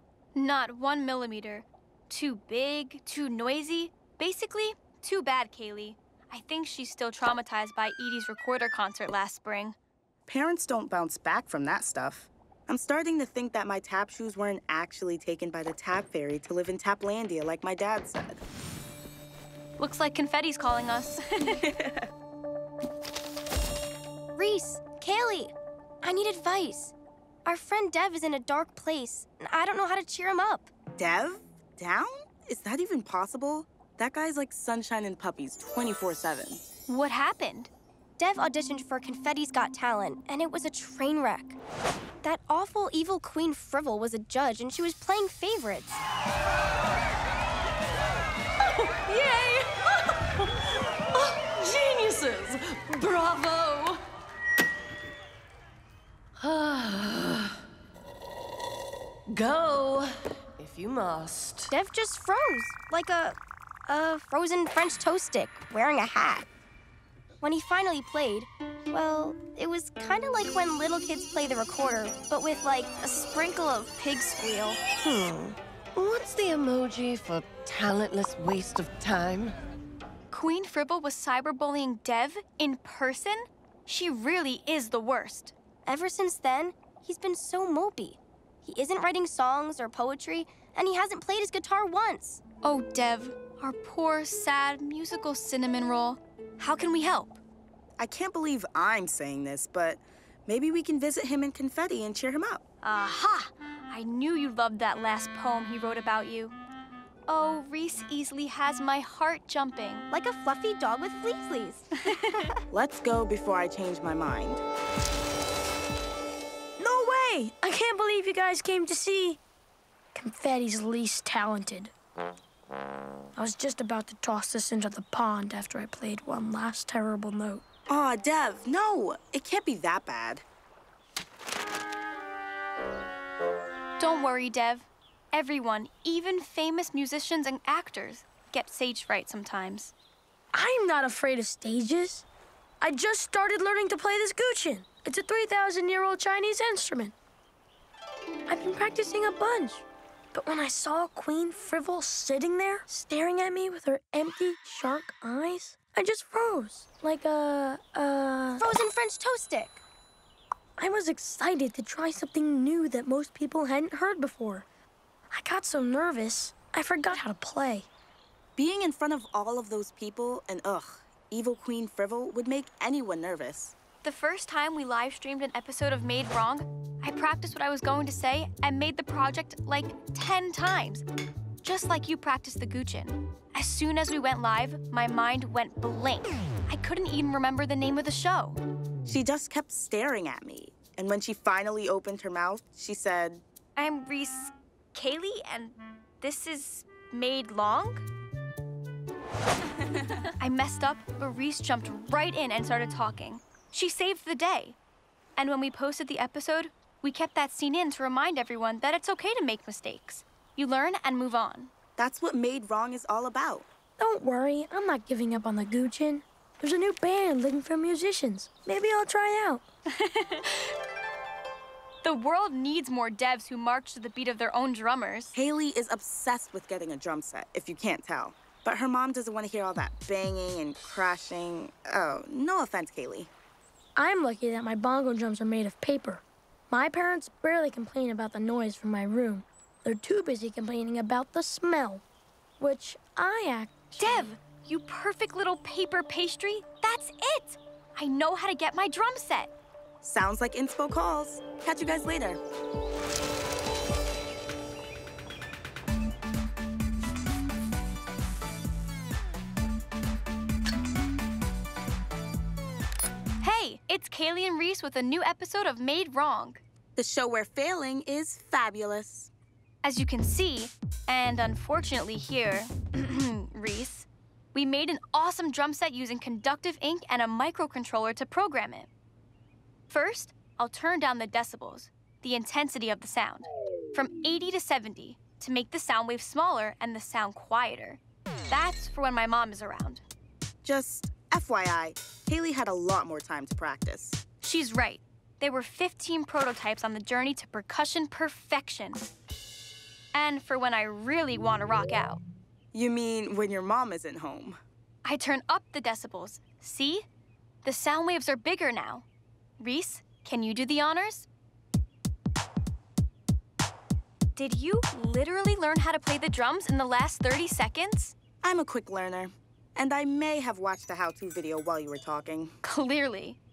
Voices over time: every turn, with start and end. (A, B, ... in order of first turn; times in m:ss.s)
0:00.3-0:09.8 A
0:10.3-0:18.4 B
0:19.8-0:21.7 A
0:21.6-0:22.0 B
0:24.4-0:26.9 C
0:27.4-0:30.7 C
0:31.0-0:36.6 B
0:36.9-0:37.7 A
0:38.2-0:41.6 C
0:42.2-0:46.0 C
0:49.0-0:50.4 D
0:51.1-0:54.0 D
0:56.4-0:57.6 D
0:59.3-1:01.7 D
1:01.7-1:03.4 C
1:03.9-1:06.5 C
1:07.4-1:14.9 C
1:15.0-1:19.6 D
1:20.3-1:25.5 A
1:25.8-1:32.4 C
1:32.6-1:37.4 A
1:38.0-1:42.6 B
1:42.8-1:46.5 A
1:47.3-1:50.1 A
1:50.1-1:51.9 C
1:52.0-1:52.4 A
1:52.7-1:54.6 B
1:56.8-1:59.4 E
2:00.1-2:01.9 E
2:03.4-2:07.6 E
2:07.9-2:10.4 B
2:14.0-2:19.9 A
2:20.5-2:22.2 E
2:22.8-2:27.1 E
2:28.5-2:38.7 E
2:38.6-2:39.8 C
2:40.8-2:44.6 E
2:45.3-2:47.9 E
2:48.6-2:53.7 B
2:54.0-3:01.0 A
3:01.6-3:08.6 A
3:09.0-3:13.4 B
3:13.8-3:18.0 A
3:20.4-3:24.8 A
3:25.4-3:31.7 A
3:32.0-3:33.6 B
3:34.0-3:39.6 E
3:40.0-3:40.6 A
3:42.0-3:45.4 A
3:45.3-3:53.3 B
3:54.0-4:02.0 E
4:02.6-4:04.3 E
4:04.0-4:09.5 A
4:10.0-4:12.4 B
4:23.4-4:26.6 A
4:27.0-4:29.3 B
4:29.8-4:38.9 A
4:39.9-4:50.0 A
4:50.6-4:54.2 B
4:54.4-4:59.1 A
5:00.1-5:02.2 A
5:02.7-5:04.6 B
5:05.0-5:07.0 A
5:07.6-5:09.0 A
5:09.6-5:11.3 A
5:14.4-5:18.1 A
5:18.4-5:22.6 B
5:22.6-5:23.4 A